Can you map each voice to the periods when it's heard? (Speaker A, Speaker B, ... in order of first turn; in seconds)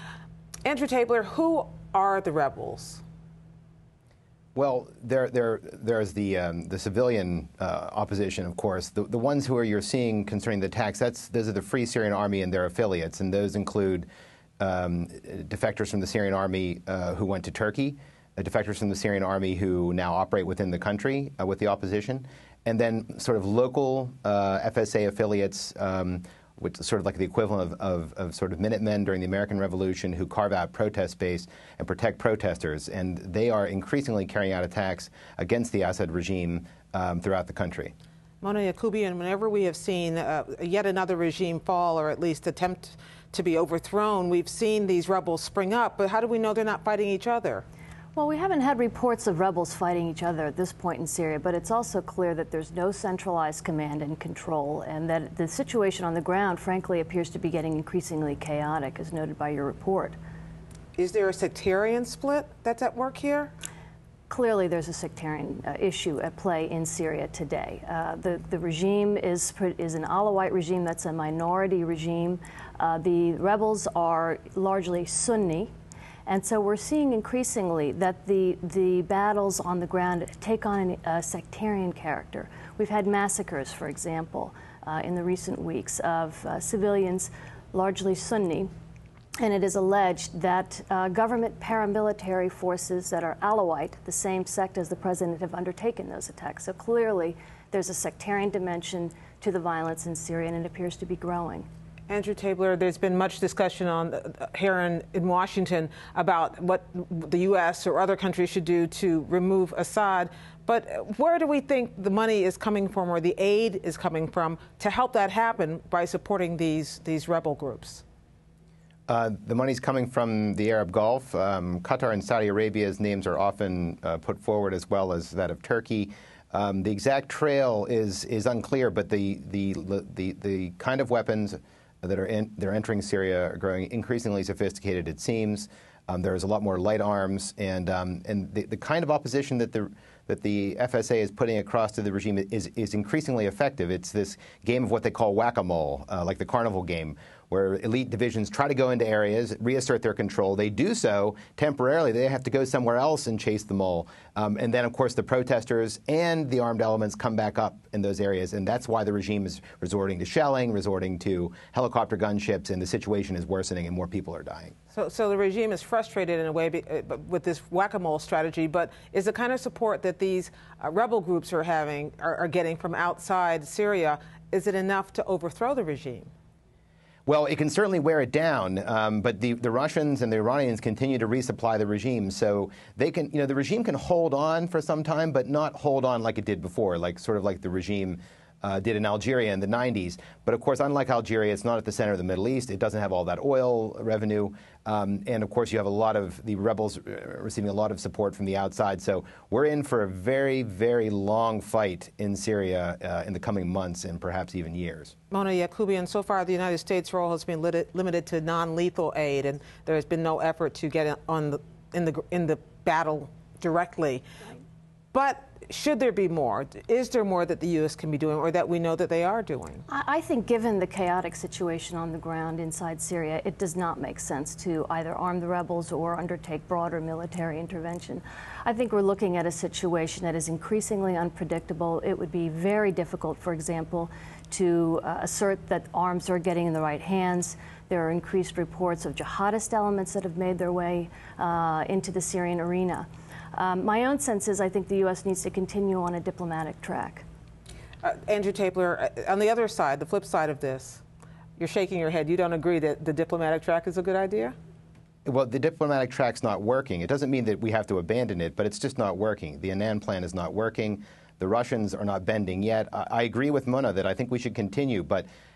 Speaker A: 0.6-3.0, 38.4-47.6, 61.0-63.5, 102.1-118.0, 164.9-176.3, 205.3-214.2, 215.1-219.8, 248.0-251.0, 251.6-254.5
Speaker B: 4.5-14.1, 14.6-37.9, 119.1-164.7, 177.2-205.1, 255.2-265.3
Speaker C: 48.1-60.2, 64.3-75.7, 76.2-88.7, 89.4-101.7, 219.9-247.2